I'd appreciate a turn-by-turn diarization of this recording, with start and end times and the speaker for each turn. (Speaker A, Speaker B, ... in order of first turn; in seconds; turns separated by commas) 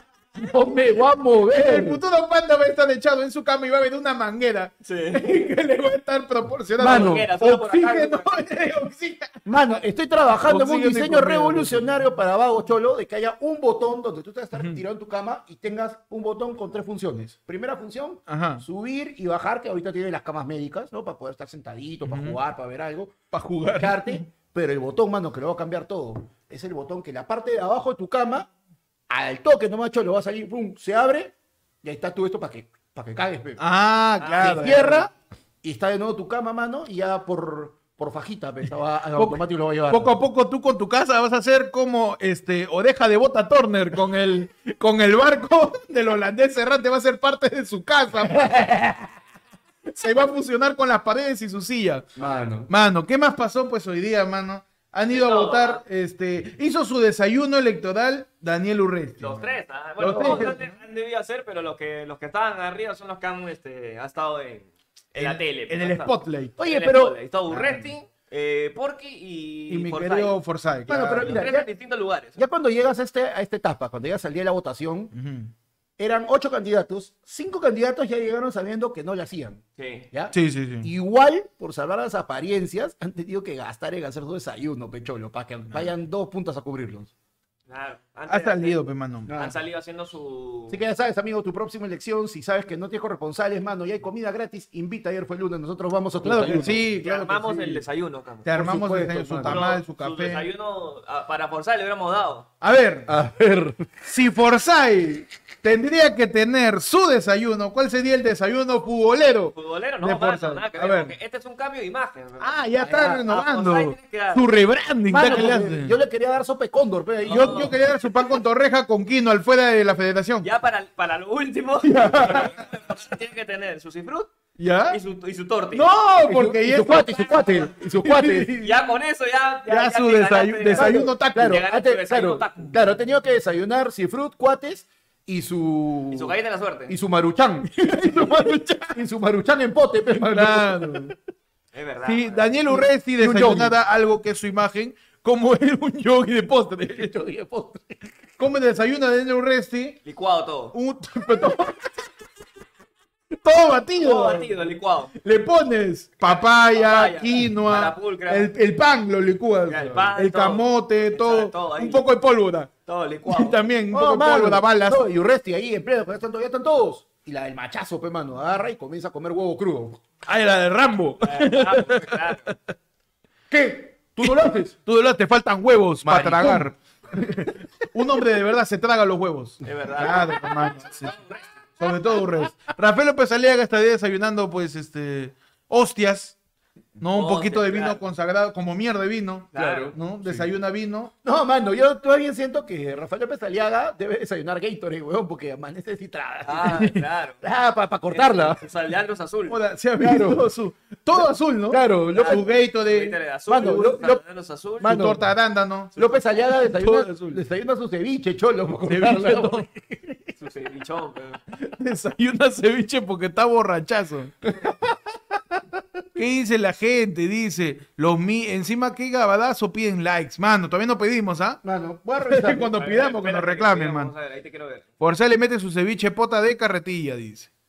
Speaker A: 0.4-2.0, Speaker B: 1.5-9.3, Speaker C: 4.8-5.2, Speaker A: 6.8-7.3, Speaker C: 6.8-8.4, Speaker A: 9.4-28.5, Speaker B: 10.4-11.9, Speaker B: 14.5-14.8, Speaker B: 18.3-18.6, Speaker B: 22.1-22.4, Speaker B: 23.3-24.2, Speaker A: 29.1-33.6, Speaker B: 33.6-35.1, Speaker C: 34.2-34.7, Speaker A: 34.4-40.1, Speaker B: 39.2-48.8, Speaker A: 48.5-49.0, Speaker B: 49.9-52.1, Speaker A: 52.2-52.7, Speaker B: 52.7-60.7, Speaker C: 55.1-55.8, Speaker C: 59.2-70.4, Speaker A: 60.0-60.5, Speaker B: 65.2-66.5, Speaker A: 66.6-67.8, Speaker B: 67.5-67.8, Speaker B: 69.7-71.4, Speaker A: 70.9-71.7, Speaker C: 71.1-72.4, Speaker A: 72.4-75.1, Speaker B: 75.1-75.5, Speaker A: 76.0-87.1, Speaker C: 79.8-80.1, Speaker B: 80.3-80.9, Speaker C: 87.7-90.8, Speaker B: 88.3-89.3, Speaker A: 89.3-89.6, Speaker A: 90.7-96.8, Speaker B: 96.2-97.8, Speaker C: 96.3-98.5, Speaker B: 98.5-100.5, Speaker A: 98.5-99.7, Speaker C: 99.4-102.5, Speaker B: 102.6-103.1, Speaker A: 103.1-104.0, Speaker B: 104.0-111.1, Speaker C: 109.5-114.5, Speaker B: 112.4-116.0, Speaker A: 112.8-113.2, Speaker A: 115.1-117.8, Speaker C: 117.2-117.8, Speaker B: 117.3-120.5, Speaker C: 120.4-124.3, Speaker B: 121.8-122.6, Speaker B: 124.6-125.0, Speaker C: 124.9-125.9, Speaker B: 125.7-128.5, Speaker A: 126.2-128.7, Speaker C: 128.6-132.8, Speaker B: 129.7-131.6, Speaker A: 130.7-136.4, Speaker C: 136.1-136.9, Speaker A: 136.9-141.1, Speaker B: 137.7-139.0, Speaker B: 140.2-141.1, Speaker C: 141.7-142.6, Speaker B: 142.1-147.2, Speaker A: 142.7-143.8, Speaker A: 146.9-148.1, Speaker B: 148.4-150.0, Speaker C: 150.1-150.8, Speaker B: 150.7-151.9, Speaker B: 153.4-154.5, Speaker C: 154.0-155.1, Speaker B: 155.1-162.7, Speaker C: 156.2-158.5, Speaker C: 159.7-162.1, Speaker C: 162.9-163.6, Speaker B: 163.3-165.0, Speaker A: 163.9-170.0, Speaker B: 170.2-172.6, Speaker C: 171.2-172.5, Speaker A: 173.5-174.8, Speaker B: 174.2-181.2, Speaker A: 176.0-176.7, Speaker C: 179.6-180.3, Speaker C: 181.0-181.4, Speaker B: 181.8-186.4, Speaker B: 187.0-191.1, Speaker C: 187.1-188.0, Speaker C: 189.5-189.9, Speaker A: 189.6-190.5, Speaker A: 191.2-198.6, Speaker C: 196.5-197.4, Speaker C: 198.1-199.6, Speaker B: 199.5-203.2, Speaker A: 200.0-200.4, Speaker A: 201.1-202.5, Speaker C: 202.1-204.9, Speaker A: 203.5-204.2, Speaker A: 204.8-205.2, Speaker B: 204.8-207.4, Speaker A: 206.0-210.2, Speaker B: 208.8-209.7, Speaker C: 210.4-211.4, Speaker B: 211.5-214.3, Speaker B: 216.2-221.6, Speaker A: 221.6-222.8, Speaker B: 222.2-224.1, Speaker C: 222.7-224.9, Speaker B: 225.0-227.5